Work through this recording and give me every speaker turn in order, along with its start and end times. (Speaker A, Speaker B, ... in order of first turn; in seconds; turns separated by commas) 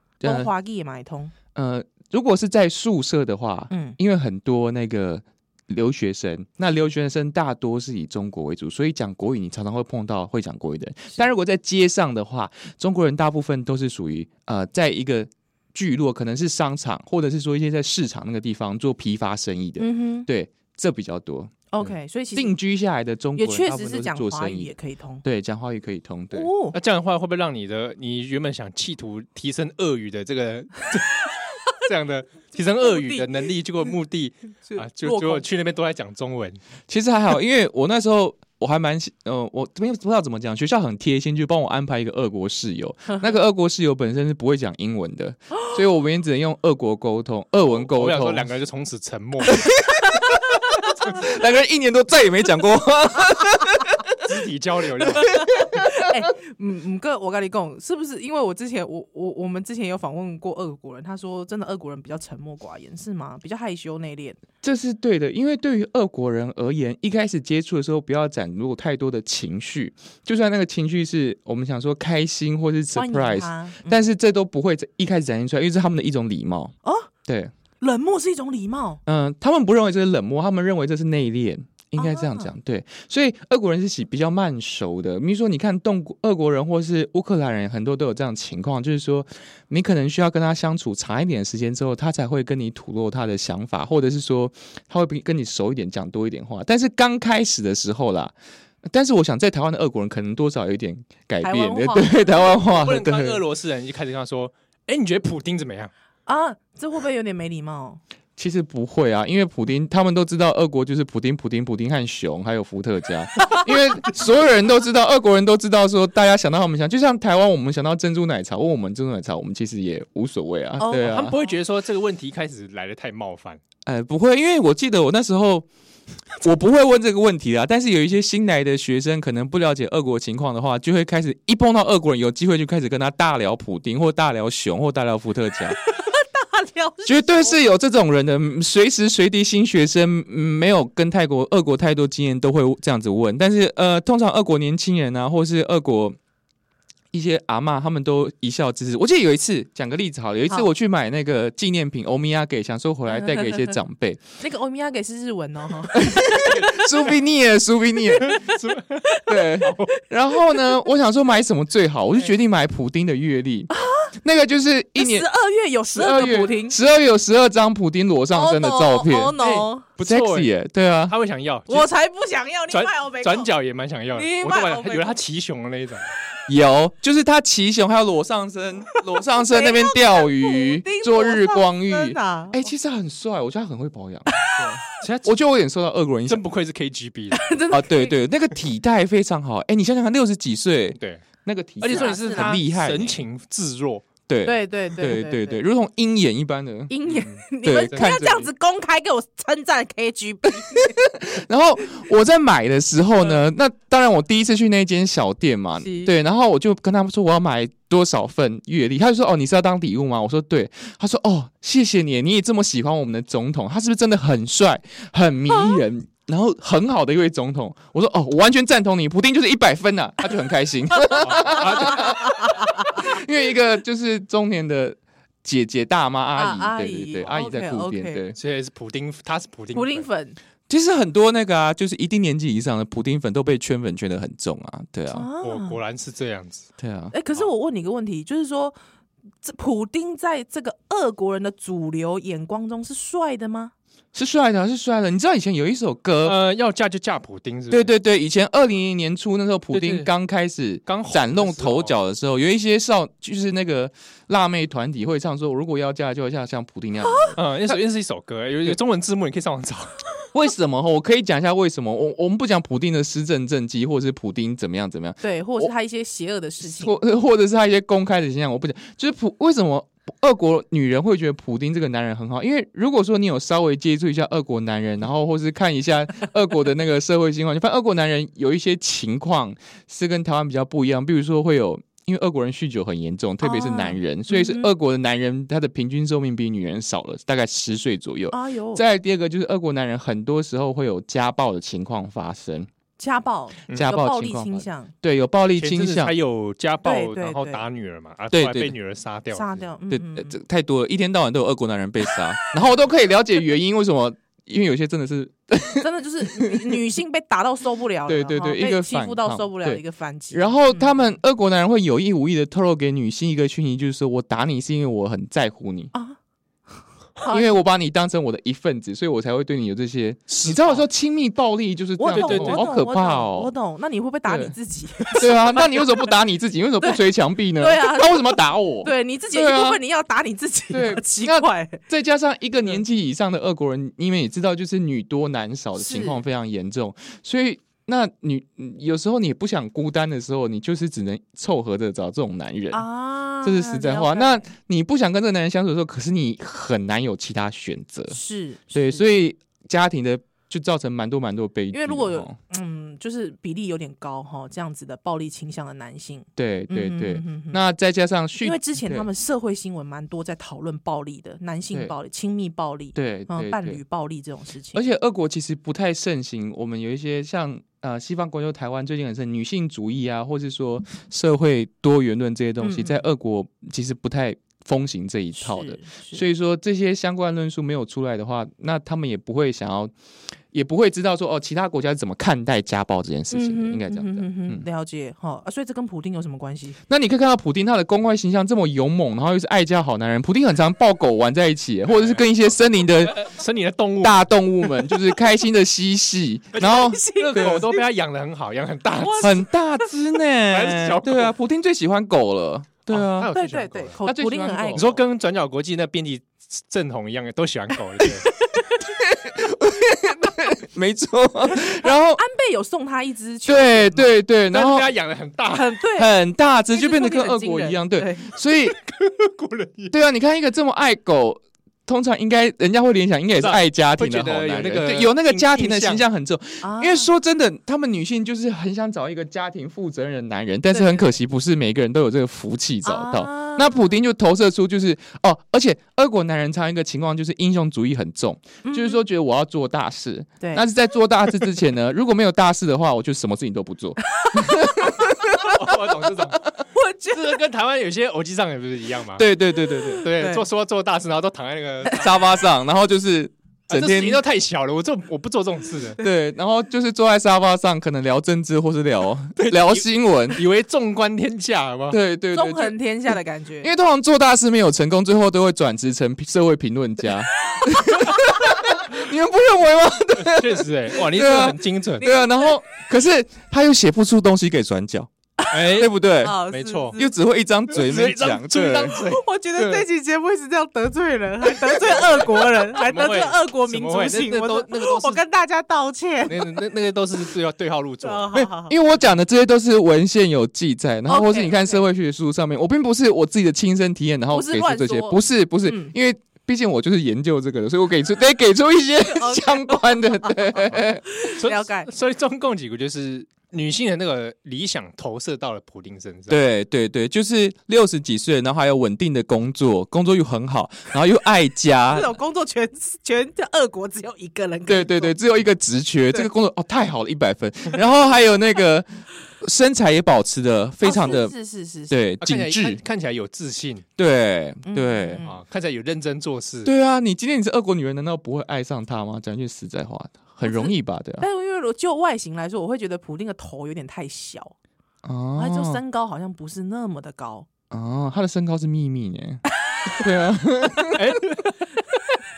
Speaker A: 0.2-0.5, Speaker B: 0.2-1.3, Speaker A: 1.5-24.7, Speaker B: 3.7-4.0, Speaker B: 19.8-20.3, Speaker B: 21.7-22.6, Speaker B: 23.4-25.2, Speaker A: 25.2-26.5, Speaker B: 26.3-26.8, Speaker C: 26.7-36.6, Speaker B: 32.8-33.5, Speaker B: 34.7-35.4, Speaker A: 36.9-48.5, Speaker B: 43.1-43.3, Speaker C: 47.6-49.7, Speaker A: 49.5-54.2, Speaker C: 54.2-55.3, Speaker A: 55.0-56.2, Speaker B: 55.2-64.4, Speaker A: 64.6-76.7, Speaker B: 72.9-74.1, Speaker B: 76.8-77.1, Speaker A: 77.3-77.5, Speaker B: 77.8-79.0, Speaker A: 79.0-103.4, Speaker B: 82.0-82.5, Speaker B: 101.4-102.4, Speaker C: 102.5-105.9, Speaker B: 106.2-108.0, Speaker A: 108.4-121.3, Speaker B: 120.8-121.5, Speaker C: 120.9-123.6, Speaker A: 123.8-125.7, Speaker A: 126.4-135.8, Speaker B: 135.8-137.6, Speaker A: 137.0-146.2, Speaker A: 147.1-154.2, Speaker B: 153.1-153.8, Speaker B: 154.4-157.1, Speaker A: 155.9-158.4, Speaker C: 156.5-157.0, Speaker B: 158.1-159.3, Speaker C: 158.2-159.9, Speaker A: 159.2-165.2, Speaker B: 160.4-160.8, Speaker B: 163.7-164.1, Speaker B: 164.9-166.8, Speaker A: 165.9-169.3, Speaker B: 168.3-169.9, Speaker C: 169.4-170.5, Speaker A: 170.0-171.1, Speaker C: 171.1-171.9, Speaker B: 171.7-173.5, Speaker C: 172.7-176.1, Speaker B: 174.1-175.2, Speaker A: 176.5-186.4, Speaker B: 179.2-182.7, Speaker B: 184.3-184.7, Speaker C: 184.9-185.4, Speaker C: 186.3-187.6, Speaker B: 187.3-188.2, Speaker A: 187.7-193.2, Speaker C: 191.0-191.2, Speaker B: 191.8-192.6, Speaker C: 191.8-194.1, Speaker A: 194.3-196.9, Speaker B: 194.4-195.6, Speaker B: 196.9-201.0, Speaker C: 197.0-198.4, Speaker A: 197.6-198.5, Speaker A: 200.7-228.4, Speaker B: 205.8-206.1, Speaker B: 215.5-215.8, Speaker B: 220.9-223.1, Speaker C: 221.2-222.0, Speaker B: 226.3-228.2, Speaker C: 228.3-230.1, Speaker B: 229.7-230.4, Speaker A: 230.7-235.3, Speaker B: 235.1-235.8, Speaker C: 235.4-236.7, Speaker A: 236.8-237.1, Speaker B: 237.1-238.8, Speaker B: 239.4-243.7, Speaker A: 244.1-246.4, Speaker C: 246.2-247.9, Speaker A: 247.7-257.8, Speaker C: 249.7-250.1, Speaker C: 250.9-251.9, Speaker B: 257.1-257.4, Speaker C: 257.4-260.0, Speaker A: 260.3-265.7, Speaker B: 265.2-267.0, Speaker A: 266.6-292.7, Speaker B: 283.4-284.7, Speaker B: 288.3-288.8, Speaker B: 293.0-294.9, Speaker A: 293.7-296.1, Speaker C: 295.6-299.6, Speaker B: 296.8-297.6, Speaker A: 298.3-298.7, Speaker B: 299.3-300.4, Speaker A: 299.9-305.8, Speaker B: 305.8-310.9, Speaker A: 306.4-306.8, Speaker A: 308.1-315.9, Speaker B: 316.8-317.6, Speaker A: 317.3-323.5, Speaker C: 320.3-320.8, Speaker B: 322.0-326.0, Speaker C: 322.1-322.6, Speaker A: 324.3-324.5, Speaker A: 325.1-329.8, Speaker B: 326.8-331.8, Speaker A: 330.7-342.8, Speaker B: 335.8-336.2, Speaker B: 342.7-344.4, Speaker A: 343.4-348.2, Speaker B: 348.1-349.0, Speaker A: 348.7-352.4, Speaker B: 351.7-357.6, Speaker A: 356.4-359.1, Speaker B: 358.4-364.8, Speaker A: 362.9-363.8, Speaker A: 364.7-379.9, Speaker B: 372.6-373.0, Speaker B: 375.4-376.2, Speaker A: 380.5-384.6, Speaker B: 383.3-386.8, Speaker A: 386.9-393.3, Speaker C: 391.9-392.2, Speaker C: 393.1-394.3, Speaker A: 394.0-397.7, Speaker C: 396.6-399.4, Speaker B: 396.6-397.8, Speaker B: 399.0-399.9, Speaker A: 399.2-403.3, Speaker C: 400.5-401.3, Speaker C: 402.9-404.0, Speaker B: 403.3-405.0, Speaker A: 404.0-404.9, Speaker C: 404.7-408.3, Speaker B: 408.2-408.8, Speaker A: 408.8-412.2, Speaker B: 411.5-414.1, Speaker A: 413.5-414.9, Speaker C: 414.5-415.8, Speaker B: 415.5-416.1, Speaker A: 415.9-418.8, Speaker B: 416.7-418.3, Speaker C: 418.9-419.9, Speaker A: 419.9-445.5, Speaker C: 423.4-426.0, Speaker B: 426.6-427.1, Speaker B: 430.7-431.1, Speaker B: 432.8-433.9, Speaker B: 438.6-439.0, Speaker B: 440.4-440.6, Speaker B: 444.1-445.8, Speaker C: 445.4-446.5, Speaker B: 446.7-447.4, Speaker C: 447.1-449.2, Speaker A: 449.1-450.1, Speaker B: 449.8-450.4, Speaker C: 450.0-452.3, Speaker A: 451.9-454.2, Speaker C: 453.7-456.0, Speaker A: 456.0-460.4, Speaker C: 459.4-462.0, Speaker A: 461.9-462.8, Speaker B: 462.3-463.7, Speaker A: 463.6-475.1, Speaker C: 470.2-472.1, Speaker B: 472.0-472.5, Speaker B: 475.4-477.1, Speaker C: 475.5-475.9, Speaker A: 475.6-476.4, Speaker C: 476.5-477.0, Speaker A: 476.9-479.0, Speaker C: 477.7-479.9, Speaker B: 478.9-486.7, Speaker C: 481.6-485.2, Speaker C: 486.3-488.3, Speaker B: 488.0-488.7, Speaker A: 488.3-501.2, Speaker B: 491.1-491.9, Speaker B: 494.3-495.9, Speaker B: 499.0-501.9, Speaker C: 501.3-506.4, Speaker A: 506.3-512.1, Speaker B: 511.9-515.2, Speaker A: 514.7-518.9, Speaker A: 519.4-521.3, Speaker B: 520.8-522.0, Speaker A: 521.9-522.8, Speaker C: 522.2-523.8, Speaker A: 524.0-525.2, Speaker B: 524.6-525.4, Speaker C: 525.2-526.7, Speaker A: 526.6-531.2, Speaker B: 530.4-534.5, Speaker A: 535.0-535.8, Speaker B: 535.4-537.5, Speaker A: 537.7-539.4, Speaker B: 539.7-540.0, Speaker A: 539.9-541.2, Speaker C: 540.9-541.6